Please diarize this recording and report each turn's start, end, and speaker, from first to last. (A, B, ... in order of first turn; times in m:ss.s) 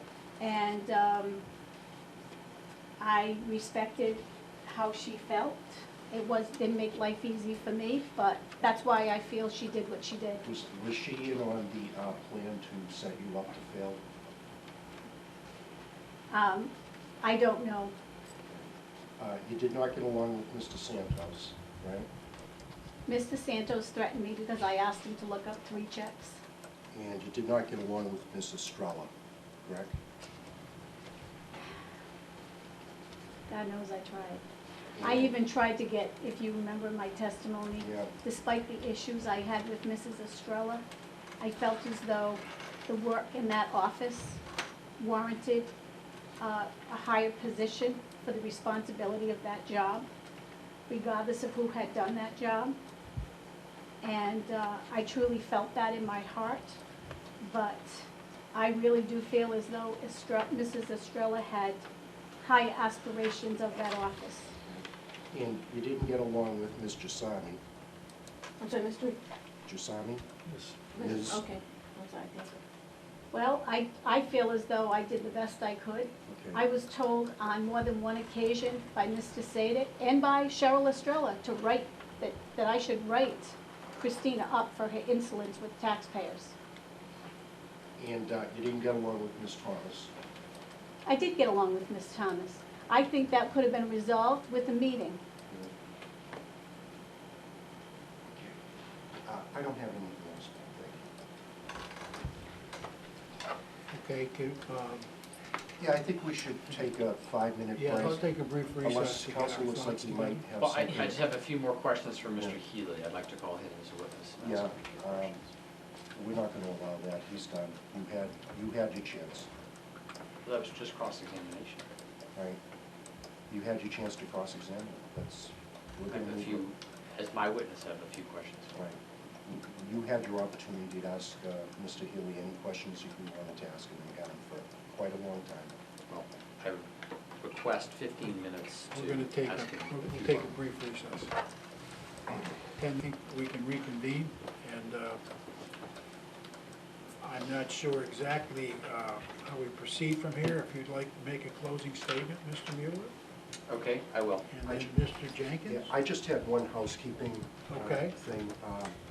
0:00.4-0:01.4 A
0:03.0-0:10.4 A
0:10.4-0:14.1 B
0:16.3-0:18.0 A
0:18.5-0:22.1 B
0:23.1-0:26.4 A
0:26.9-0:29.1 B
0:29.6-0:30.0 B
0:33.5-0:34.4 A
0:35.0-0:35.4 B
0:35.0-0:40.8 A
0:37.8-0:38.1 B
0:41.4-0:44.4 A
0:45.0-0:45.7 A
0:46.4-0:50.1 A
0:50.9-0:52.8 A
0:54.0-0:56.8 A
0:57.4-1:01.8 A
1:02.4-1:04.5 A
1:04.7-1:07.6 B
1:08.6-1:09.2 C
1:09.7-1:10.3 B
1:11.0-1:11.4 B
1:11.0-1:12.6 C
1:11.0-1:11.4 A
1:13.3-1:26.5 A
1:16.3-1:16.6 B
1:28.0-1:30.1 B
1:31.1-1:35.2 A
1:38.3-1:38.6 B
1:39.2-1:41.1 B
1:43.9-1:45.1 D
1:45.8-1:51.2 B
1:47.8-1:50.4 D
1:50.6-1:55.5 E
1:54.4-1:55.4 B
1:56.2-1:59.5 B
2:00.4-2:01.9 E
2:03.5-2:06.7 B
2:06.1-2:08.8 E
2:08.8-2:15.8 B
2:16.1-2:16.9 E
2:17.4-2:20.6 E
2:18.9-2:21.3 D
2:22.8-2:25.2 D
2:27.2-2:33.1 D
2:33.7-2:34.5 E
2:34.5-2:35.9 D
2:34.6-2:35.0 B
2:35.7-2:39.0 B
2:37.7-2:38.2 D